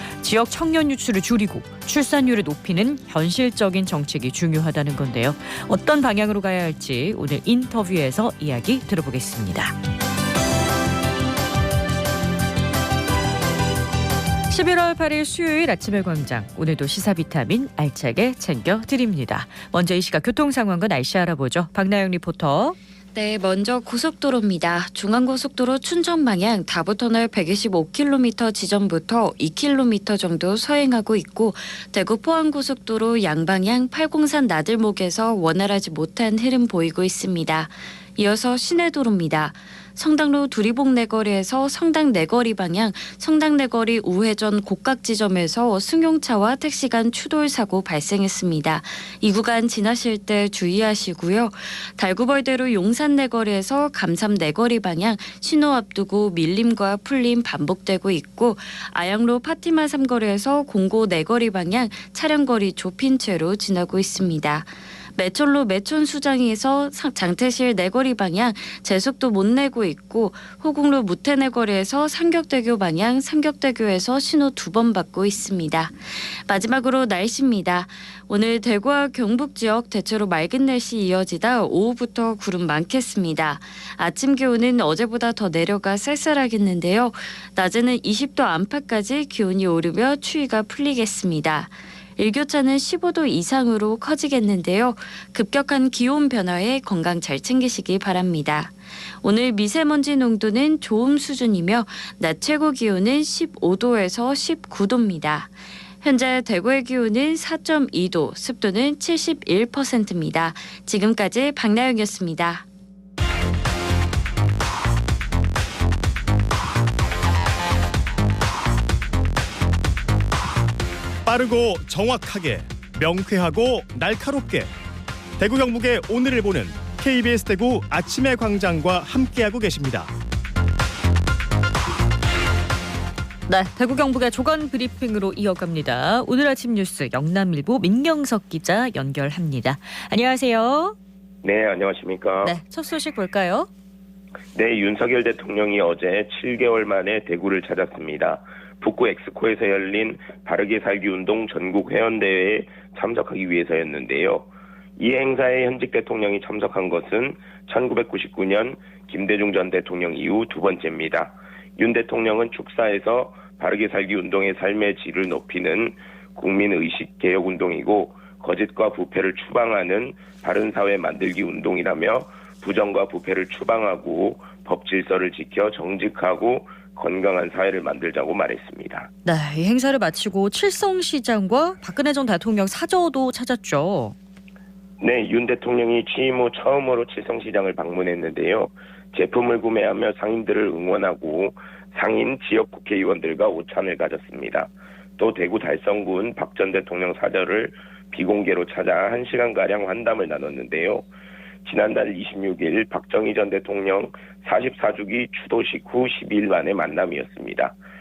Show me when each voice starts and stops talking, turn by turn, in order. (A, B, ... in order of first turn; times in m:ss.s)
0:00.2-0:09.7 A
0:14.5-0:22.8 A
0:23.2-1:52.7 B
2:01.3-2:04.7 C
2:05.4-2:10.1 C
2:13.5-2:21.0 A
2:21.4-2:22.6 D
2:22.4-2:23.7 A
2:24.5-2:59.1 D
2:59.2-3:04.2 A
3:05.0-3:21.1 D
3:21.6-3:27.8 D